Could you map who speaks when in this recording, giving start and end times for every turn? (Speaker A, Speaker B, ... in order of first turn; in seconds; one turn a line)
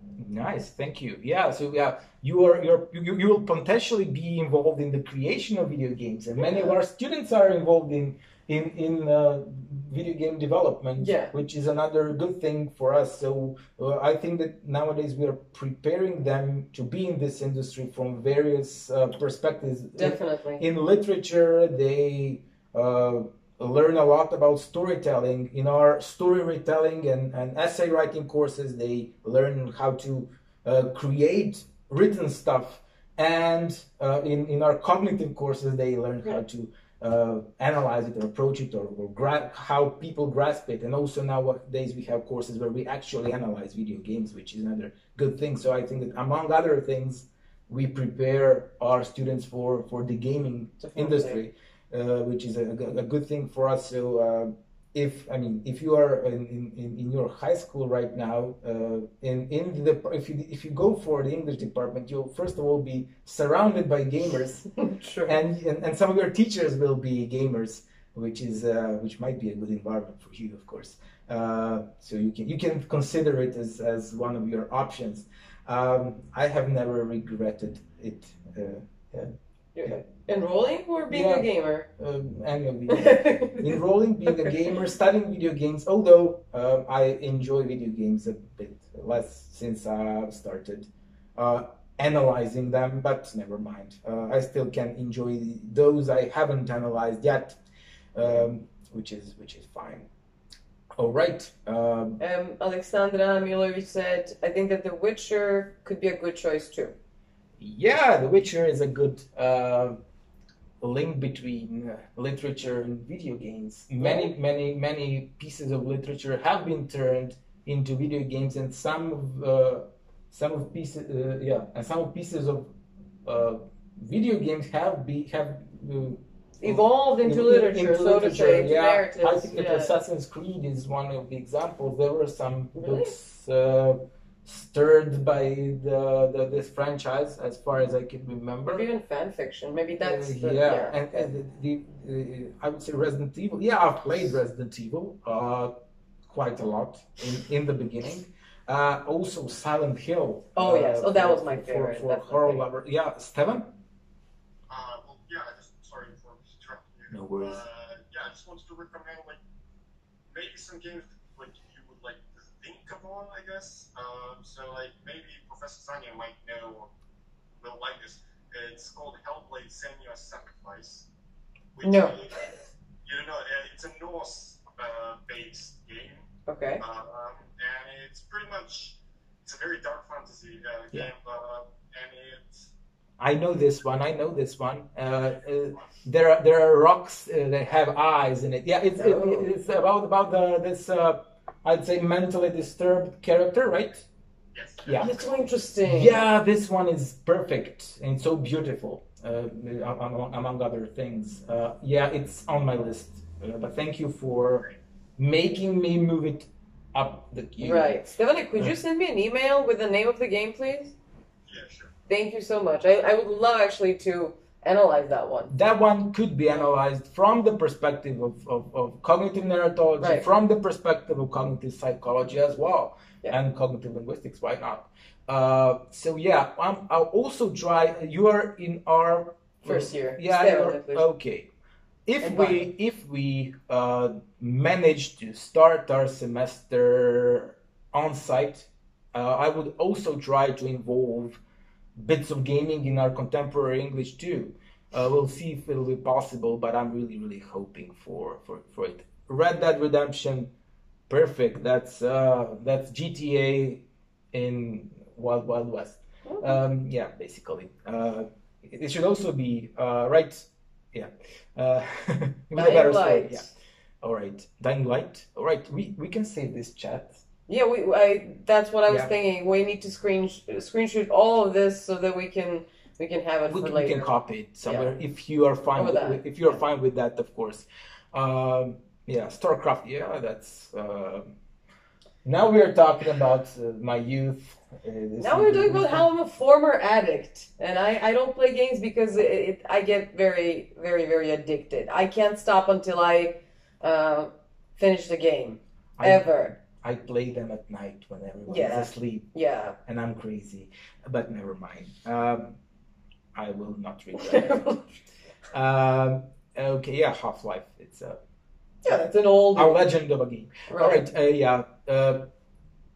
Speaker A: 0.2-64.7
Speaker B: 11.0-11.3
Speaker B: 20.0-20.6
Speaker B: 50.8-51.4
Speaker B: 64.8-65.4
Speaker A: 65.3-79.3
Speaker B: 79.8-81.9
Speaker A: 81.1-97.6
Speaker B: 82.9-83.8
Speaker A: 98.2-100.1
Speaker A: 101.0-102.2
Speaker B: 102.2-107.0
Speaker A: 107.6-110.0
Speaker A: 110.8-122.7
Speaker B: 114.0-114.3
Speaker A: 123.2-138.9
Speaker B: 126.6-129.9
Speaker B: 132.8-133.1
Speaker B: 138.7-141.3
Speaker A: 140.0-145.7
Speaker A: 146.3-153.8
Speaker B: 150.6-152.6
Speaker C: 154.7-159.4
Speaker A: 157.1-157.7
Speaker C: 160.3-166.9
Speaker C: 167.6-171.1
Speaker C: 171.8-176.2
Speaker B: 171.8-172.2
Speaker B: 176.5-176.8
Speaker C: 176.8-182.7
Speaker A: 183.2-194.1
Speaker B: 189.0-189.5
Speaker C: 194.5-195.3
Speaker A: 194.8-195.1
Speaker B: 195.0-196.2
Speaker A: 195.8-208.8
Speaker B: 207.6-210.9
Speaker C: 211.5-211.9
Speaker B: 212.1-215.5
Speaker A: 215.5-231.5
Speaker B: 220.0-220.3
Speaker B: 229.6-231.1
Speaker A: 232.1-241.4
Speaker B: 232.2-232.7
Speaker A: 242.0-250.5
Speaker A: 251.1-267.2
Speaker B: 256.3-256.6
Speaker B: 262.6-263.5
Speaker B: 267.5-274.1
Speaker A: 273.5-281.3
Speaker B: 274.6-274.9
Speaker B: 275.8-276.3
Speaker A: 282.2-286.1
Speaker B: 285.2-296.6
Speaker A: 296.0-299.3
Speaker B: 298.5-299.8
Speaker A: 299.9-302.6
Speaker A: 303.4-304.9
Speaker B: 304.2-304.8
Speaker A: 305.5-308.2
Speaker B: 308.8-309.8
Speaker A: 309.5-312.3
Speaker B: 310.7-311.1